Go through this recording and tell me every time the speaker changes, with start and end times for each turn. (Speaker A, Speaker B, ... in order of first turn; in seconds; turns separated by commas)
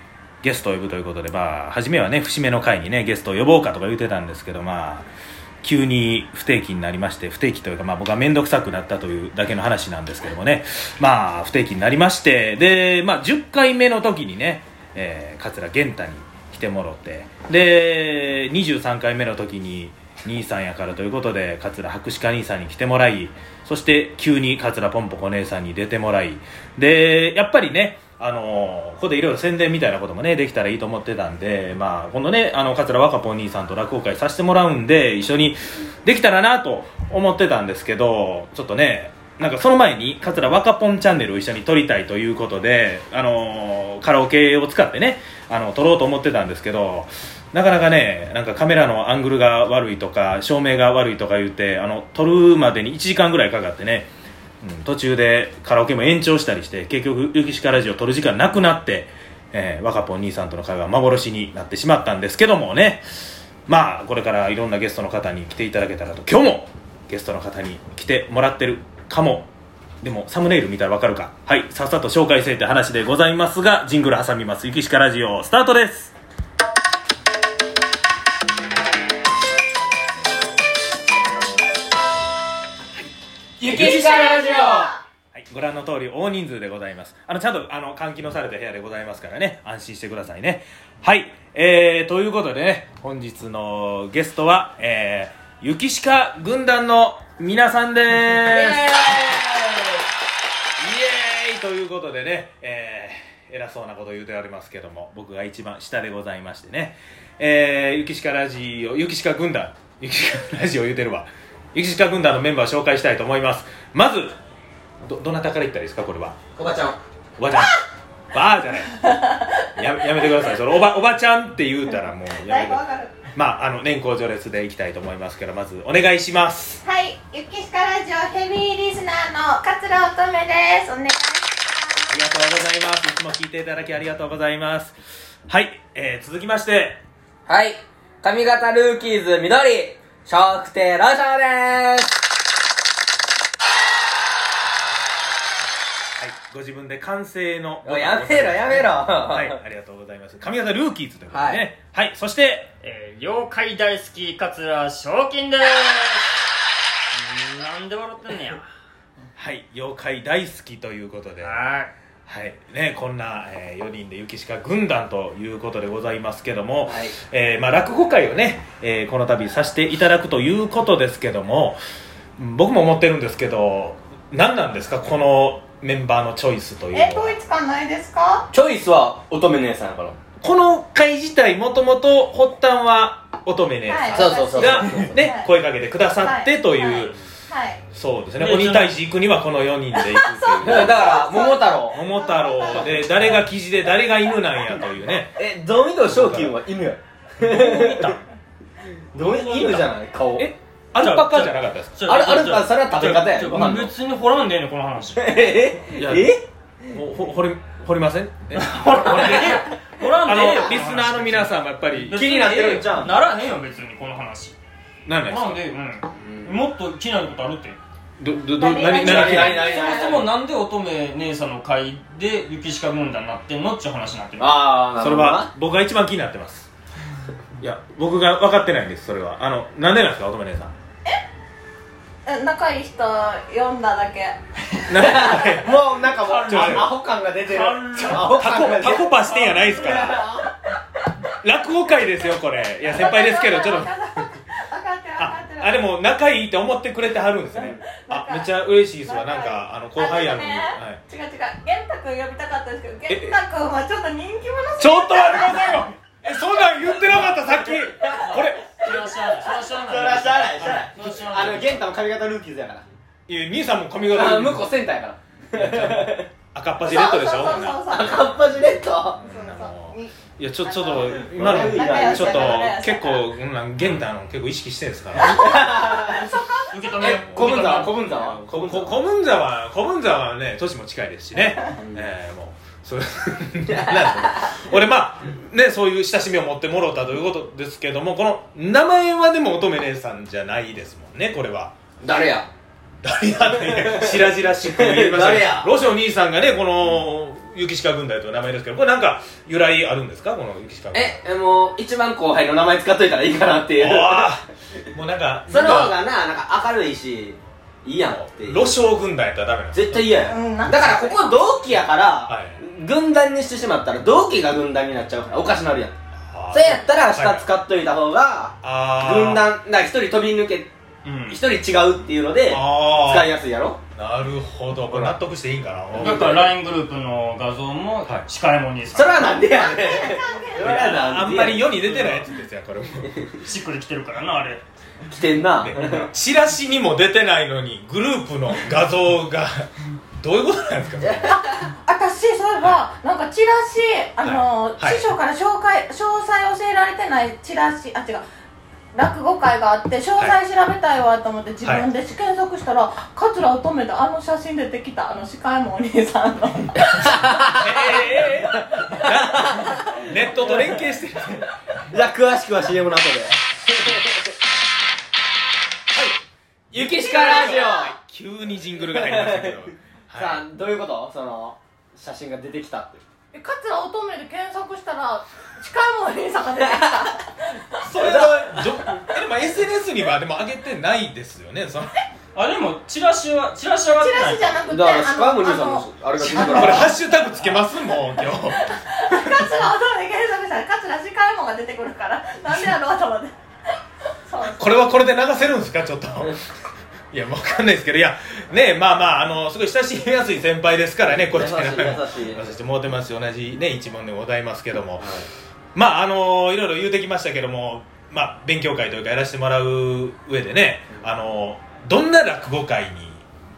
Speaker A: 0.4-5.1, Speaker A: 5.6-54.1, Speaker A: 54.6-63.0, Speaker A: 63.7-69.5, Speaker A: 70.0-76.1, Speaker B: 83.6-84.9, Speaker C: 83.7-84.3, Speaker D: 83.8-85.0, Speaker A: 85.3-99.3, Speaker A: 100.8-114.4, Speaker A: 115.0-116.4, Speaker B: 116.6-117.0, Speaker A: 117.4-119.1, Speaker A: 119.8-122.8, Speaker D: 122.3-123.2, Speaker A: 123.3-126.8, Speaker D: 126.8-132.1, Speaker A: 132.1-135.0, Speaker A: 135.5-137.0, Speaker B: 137.5-142.2, Speaker A: 146.2-152.7, Speaker B: 147.8-149.6, Speaker B: 151.3-151.6, Speaker C: 152.8-156.3, Speaker C: 157.1-158.6, Speaker A: 159.4-161.6, Speaker C: 161.4-161.9, Speaker A: 162.3-171.8, Speaker B: 166.9-167.2, Speaker A: 172.4-177.4, Speaker D: 176.9-178.5, Speaker B: 178.5-180.2, Speaker A: 180.4-187.2, Speaker D: 183.8-185.5, Speaker B: 184.1-185.2, Speaker D: 186.2-187.8, Speaker A: 187.9-191.2, Speaker C: 188.4-188.9, Speaker D: 190.0-193.4, Speaker B: 190.6-192.0, Speaker A: 191.9-195.4, Speaker B: 192.7-192.9, Speaker B: 195.4-198.2, Speaker A: 196.1-196.6, Speaker C: 197.4-198.3, Speaker C: 199.1-199.9, Speaker B: 199.2-200.5, Speaker A: 200.4-202.0, Speaker C: 201.0-205.3, Speaker B: 202.1-203.9, Speaker B: 205.2-206.9, Speaker A: 206.0-206.3, Speaker A: 206.9-209.6, Speaker C: 208.5-214.6, Speaker A: 210.2-212.3, Speaker B: 212.1-213.2, Speaker A: 215.1-215.6, Speaker C: 215.2-217.8, Speaker B: 216.2-216.6, Speaker A: 218.2-219.6, Speaker D: 218.6-220.2, Speaker B: 219.0-220.3, Speaker C: 219.1-224.6, Speaker B: 224.4-225.5, Speaker A: 225.0-226.7, Speaker A: 227.6-230.7, Speaker D: 232.2-234.4, Speaker A: 234.9-235.7, Speaker B: 234.9-240.4, Speaker D: 235.0-235.5, Speaker C: 236.1-239.4, Speaker A: 236.5-236.9, Speaker A: 238.3-240.2, Speaker D: 239.4-240.5, Speaker A: 241.4-243.9, Speaker D: 242.8-245.8, Speaker A: 245.2-251.0, Speaker D: 247.6-255.9, Speaker A: 253.1-253.4, Speaker A: 254.8-258.7, Speaker D: 256.6-256.8, Speaker B: 257.8-258.4, Speaker C: 258.3-261.8, Speaker B: 259.7-262.9, Speaker A: 263.3-264.6, Speaker B: 264.1-266.3, Speaker A: 265.5-268.1, Speaker D: 266.8-268.4, Speaker B: 267.9-269.2, Speaker A: 269.2-275.6, Speaker D: 269.2-273.3, Speaker B: 271.3-272.6, Speaker B: 275.2-276.3, Speaker D: 275.3-277.1, Speaker C: 276.7-278.4, Speaker B: 277.0-279.0, Speaker A: 277.1-291.7, Speaker B: 281.8-282.1, Speaker B: 283.7-284.5, Speaker B: 292.0-292.5, Speaker A: 293.0-301.2, Speaker B: 293.5-295.7, Speaker B: 300.9-304.3, Speaker A: 303.8-306.0, Speaker B: 305.5-308.8, Speaker A: 308.1-310.2, Speaker B: 309.7-315.9, Speaker D: 310.3-311.4, Speaker A: 312.3-312.6, Speaker A: 316.2-317.5, Speaker B: 316.5-320.7, Speaker A: 318.6-319.4, Speaker C: 321.1-321.4, Speaker B: 321.3-323.8, Speaker A: 322.5-323.3, Speaker A: 324.0-326.5, Speaker B: 324.9-325.2, Speaker C: 326.0-329.4, Speaker B: 328.9-331.7, Speaker D: 329.6-330.9, Speaker A: 330.6-333.2, Speaker C: 331.8-332.3, Speaker C: 333.4-334.6, Speaker B: 335.1-336.1, Speaker A: 335.6-341.3, Speaker B: 341.0-341.4, Speaker D: 341.3-348.2, Speaker A: 344.2-345.1, Speaker D: 348.9-358.0, Speaker B: 357.1-357.7, Speaker A: 357.6-361.5, Speaker B: 358.9-359.8, Speaker B: 360.4-360.8, Speaker B: 361.9-364.3, Speaker B: 366.7-367.9, Speaker A: 366.7-370.4, Speaker D: 367.1-367.9, Speaker B: 368.8-373.0, Speaker D: 373.3-378.2, Speaker A: 377.8-382.0, Speaker B: 378.0-378.3, Speaker C: 382.3-384.7, Speaker D: 383.9-387.0, Speaker B: 384.7-386.9, Speaker A: 386.2-389.4, Speaker D: 388.5-393.3, Speaker D: 394.3-394.8, Speaker A: 394.6-396.4, Speaker A: 397.1-405.1, Speaker B: 401.3-402.4, Speaker B: 405.0-405.3, Speaker A: 405.8-413.2